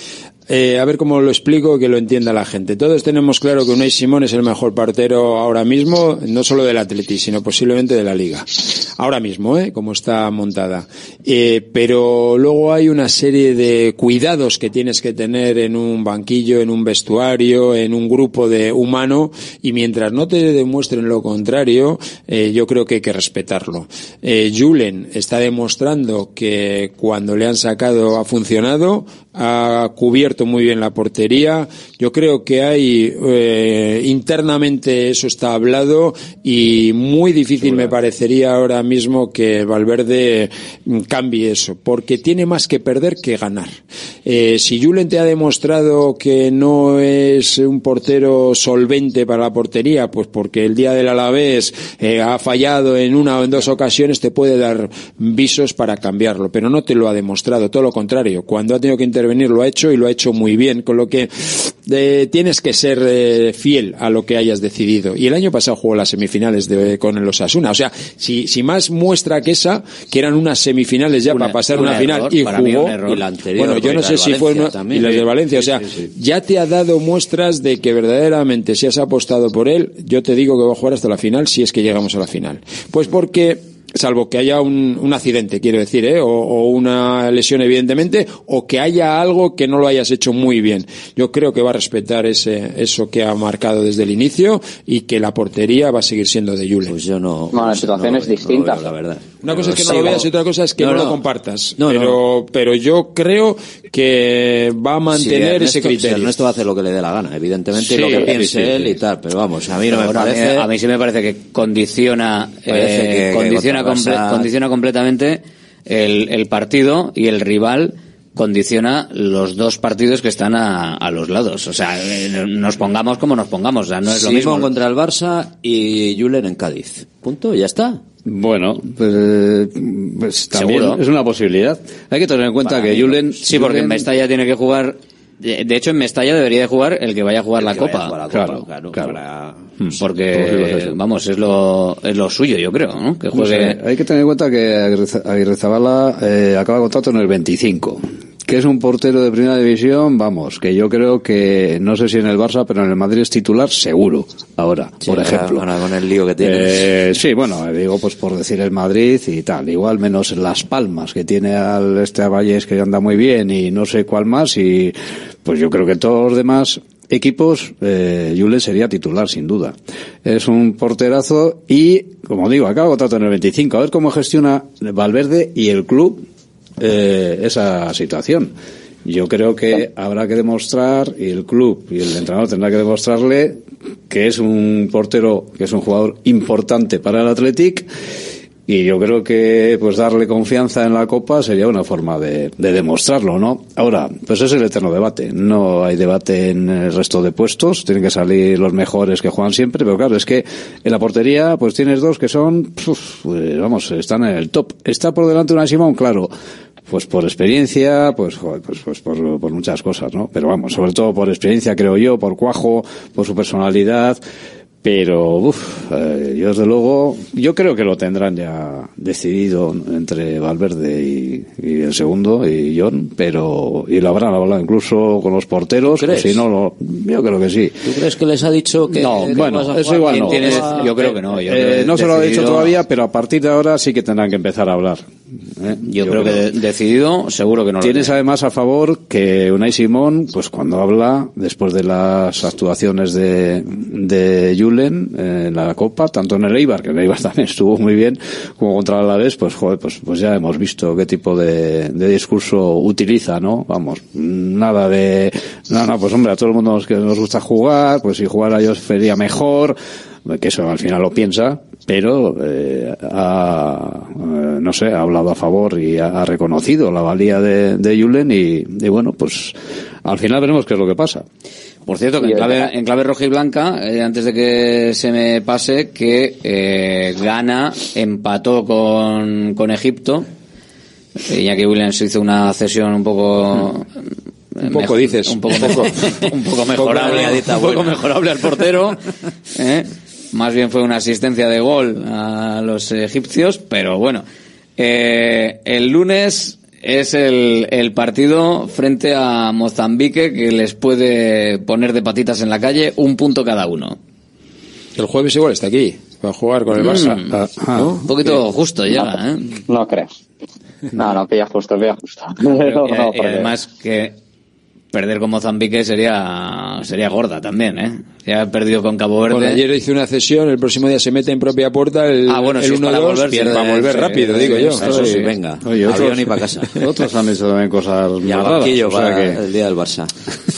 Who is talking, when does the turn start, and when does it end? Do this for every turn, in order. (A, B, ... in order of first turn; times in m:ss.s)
0:00.5-1:13.0 A
0:37.6-0:37.9 B
1:11.3-1:13.2 C
1:13.1-1:15.2 D
1:13.6-1:37.0 A
1:15.2-1:16.1 B
1:36.8-1:41.2 D
1:37.5-1:38.9 E
1:39.4-1:46.3 A
1:41.8-1:42.2 D
1:45.1-1:50.7 D
1:47.8-1:48.9 C
1:49.9-2:04.7 C
1:52.7-1:54.5 D
2:04.1-2:08.0 D
2:08.3-2:14.1 B
2:10.5-2:11.0 C
2:12.6-2:18.1 C
2:17.6-2:19.7 D
2:18.3-2:19.2 B
2:19.8-2:21.0 B
2:20.0-2:23.8 C
2:23.3-2:35.7 B
2:35.0-2:36.9 D
2:36.4-2:56.2 B
2:56.8-2:58.5 B
2:59.0-3:07.9 B
3:08.7-3:26.3 B
3:26.9-3:34.2 B
3:34.8-3:47.8 B
3:46.0-3:46.4 D
3:47.8-3:50.9 D
3:49.0-3:52.8 C
3:49.1-3:56.5 B
3:55.9-3:58.2 C
3:57.8-4:31.3 B
4:31.9-4:40.3 C
4:32.2-4:32.7 E
4:41.2-4:43.9 C
4:44.6-4:49.0 C
4:44.7-4:46.1 A
4:46.8-4:47.5 A
4:46.9-4:48.0 D
4:49.6-4:54.2 C
4:54.8-5:04.0 C
5:05.0-5:07.2 A
5:06.8-5:07.3 C
5:07.0-5:07.9 B
5:07.7-5:08.4 A
5:08.1-5:09.5 C
5:09.7-5:10.1 E
5:11.0-5:13.5 E
5:12.5-5:14.2 C
5:14.9-5:19.6 C
5:19.3-5:25.0 A
5:22.3-5:25.3 C
5:23.8-5:29.4 B
5:24.8-5:26.7 D
5:28.2-5:30.1 D